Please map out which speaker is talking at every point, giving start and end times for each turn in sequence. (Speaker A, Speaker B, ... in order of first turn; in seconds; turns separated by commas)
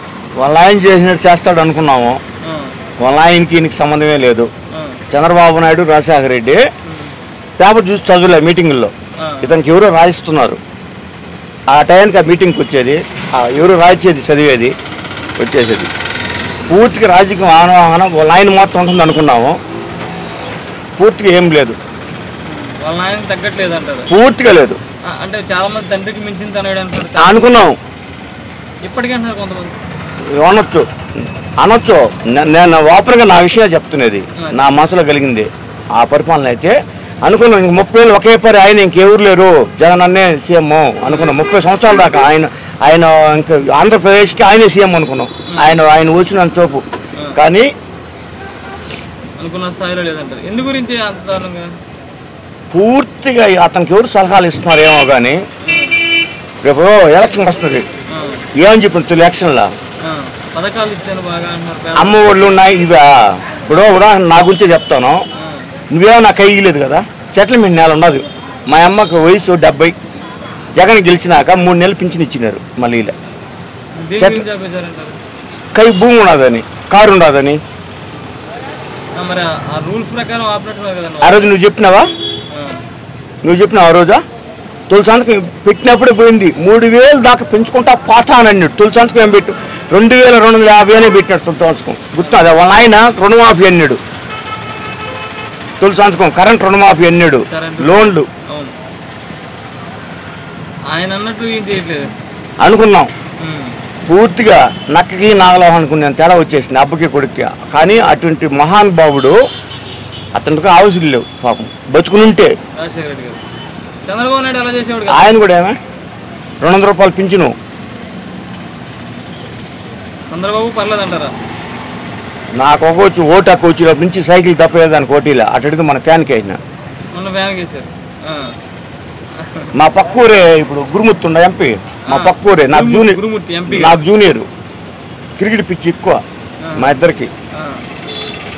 Speaker A: 0.4-2.2, Speaker B: 2.4-2.7, Speaker A: 3.0-4.5, Speaker B: 4.7-5.0, Speaker A: 5.1-6.6, Speaker B: 6.8-7.1, Speaker A: 7.6-10.6, Speaker B: 9.2-9.5, Speaker A: 11.7-14.7, Speaker A: 15.4-15.9, Speaker A: 16.7-19.6, Speaker A: 21.0-21.8, Speaker B: 22.4-24.1, Speaker A: 24.1-24.8, Speaker B: 25.0-27.4, Speaker A: 27.2-27.8, Speaker B: 28.8-29.8, Speaker A: 30.3-30.9, Speaker A: 31.6-46.8, Speaker B: 41.0-41.3, Speaker B: 45.5-45.8, Speaker A: 47.3-47.7, Speaker B: 49.4-51.7, Speaker A: 52.7-55.4, Speaker B: 55.6-55.9, Speaker A: 56.6-57.9, Speaker B: 58.1-58.5, Speaker A: 58.6-59.7, Speaker B: 60.0-62.5, Speaker A: 62.0-65.2, Speaker B: 65.3-65.7, Speaker A: 65.9-70.0, Speaker A: 70.8-73.1, Speaker B: 74.0-75.2, Speaker A: 74.2-74.5, Speaker A: 75.7-77.6, Speaker B: 79.2-81.5, Speaker A: 81.2-82.1, Speaker B: 82.5-82.8, Speaker A: 83.4-84.2, Speaker A: 84.9-94.0, Speaker B: 92.2-92.5, Speaker A: 95.8-98.3, Speaker B: 97.5-98.7, Speaker B: 100.9-102.1, Speaker A: 102.6-103.1, Speaker B: 103.4-103.7, Speaker A: 104.1-109.3, Speaker A: 110.3-112.5, Speaker B: 112.8-113.4, Speaker B: 114.0-115.3, Speaker A: 115.1-115.8, Speaker A: 116.6-117.5, Speaker B: 120.3-121.3, Speaker A: 122.6-126.6, Speaker B: 127.1-128.5, Speaker B: 129.3-129.7, Speaker A: 129.8-134.5, Speaker B: 132.1-134.0, Speaker A: 135.4-136.2, Speaker B: 136.6-136.9, Speaker A: 136.8-137.3, Speaker B: 137.5-137.8